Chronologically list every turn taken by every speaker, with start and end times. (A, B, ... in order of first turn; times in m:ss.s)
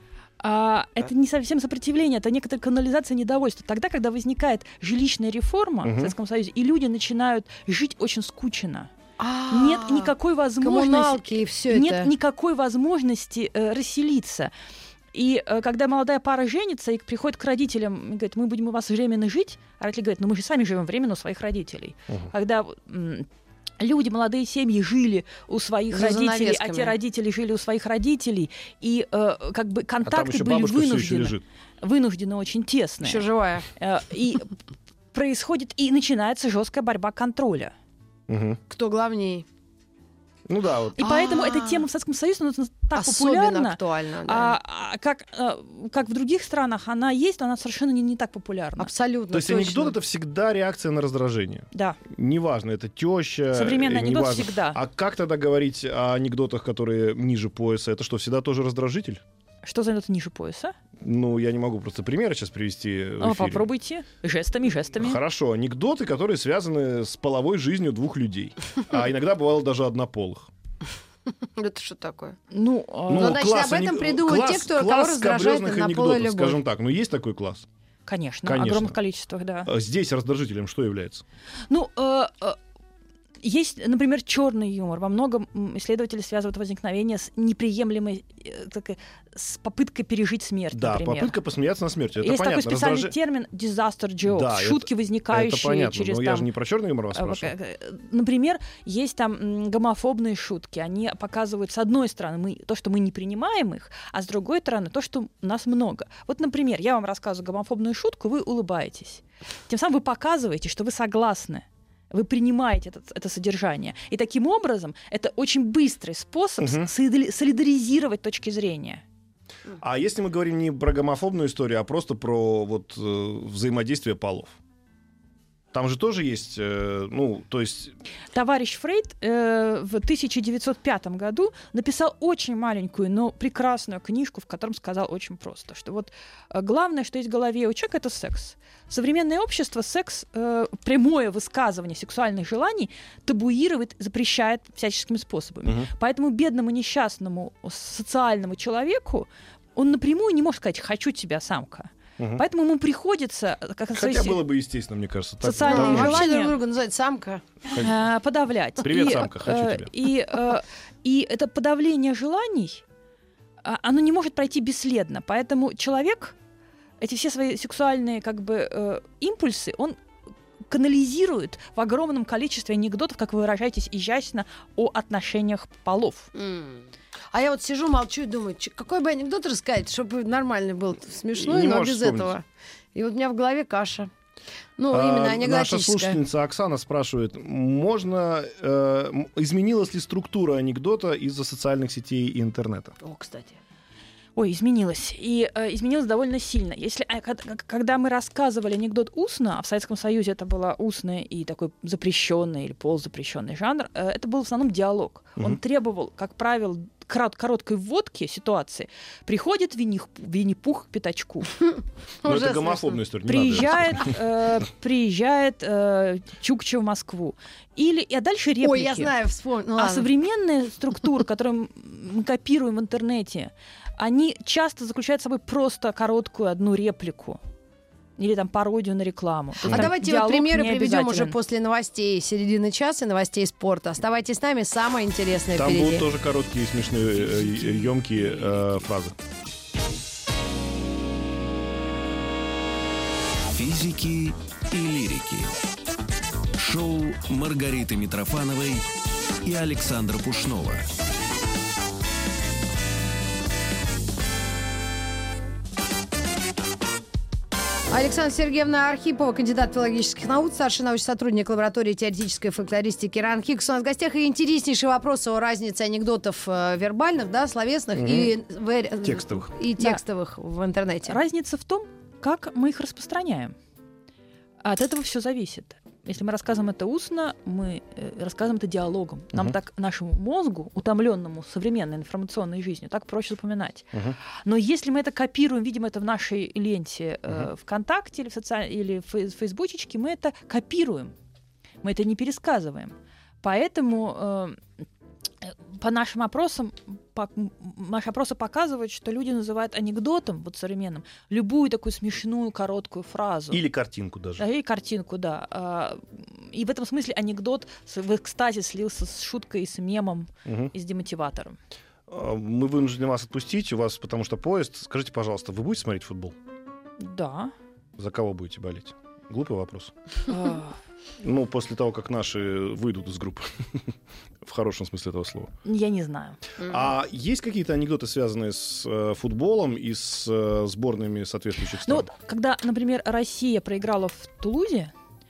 0:00.4-0:08.9 A
0:05.8-0:06.1 B
0:09.2-0:12.1 C
0:09.5-0:14.5 A
0:15.1-0:23.3 A
0:23.8-0:34.5 A
0:25.9-0:26.9 C
0:30.0-0:31.4 B
0:33.0-0:33.7 C
0:35.1-0:37.7 A
0:38.3-0:38.6 B
0:38.7-0:39.4 C
0:40.5-0:41.0 B
0:41.0-0:48.9 A
0:41.0-0:41.9 C
0:42.9-0:44.6 C
0:48.8-0:50.0 C
0:49.3-0:59.2 B
0:51.7-0:52.0 A
0:53.5-0:54.8 A
0:59.6-1:00.7 A
1:01.0-1:03.7 B
1:03.2-1:05.2 A
1:05.0-1:10.5 B
1:11.6-1:12.4 C
1:12.5-1:13.4 A
1:13.1-1:17.6 B
1:13.1-1:16.6 C
1:18.0-1:19.7 A
1:18.4-1:19.0 B
1:19.6-1:21.2 B
1:21.7-1:22.6 A
1:23.4-1:31.4 A
1:30.7-1:33.1 B
1:32.2-1:36.5 A
1:34.2-1:37.5 B
1:37.1-1:59.0 A
1:56.6-1:56.9 B
1:59.8-2:04.6 B
2:05.7-2:07.9 B
2:08.3-2:34.4 A
2:25.6-2:25.9 B
2:32.2-2:32.4 B
2:33.9-2:36.3 B
2:35.4-2:36.5 A
2:35.6-2:37.4 C
2:37.7-2:42.8 A
2:38.8-2:39.9 B
2:43.6-2:46.4 A
2:47.0-2:50.0 A
2:50.7-2:56.3 A
2:56.4-3:04.1 C
3:01.4-3:02.4 B
3:04.8-3:06.2 C
3:04.9-3:12.9 B
3:13.0-3:13.6 C
3:14.4-3:31.6 A
3:32.2-3:33.0 C
3:32.2-3:34.2 B
3:33.2-3:39.1 A
3:38.6-3:40.1 C
3:39.8-3:47.4 A
3:48.2-3:51.4 A
3:49.6-3:56.1 C
3:55.6-3:59.1 B
4:03.5-4:05.5 D
4:06.6-4:08.9 D
4:09.4-4:10.9 D
4:17.9-4:31.2 C
4:27.9-4:28.3 B
4:29.0-4:29.6 B
4:31.0-4:33.5 A
4:34.6-4:43.9 A
4:44.4-4:51.1 A
4:51.8-4:54.6 A
4:55.4-5:03.6 A
5:03.5-5:04.4 B
5:04.4-5:11.6 A
5:10.4-5:10.7 B
5:12.1-5:16.4 B
5:17.0-5:17.5 A
5:18.0-5:19.9 B
5:20.3-5:20.8 A
5:21.2-5:23.9 B
5:24.4-5:25.5 B
5:25.6-5:26.4 A
5:26.6-5:32.1 B
5:31.8-5:34.9 A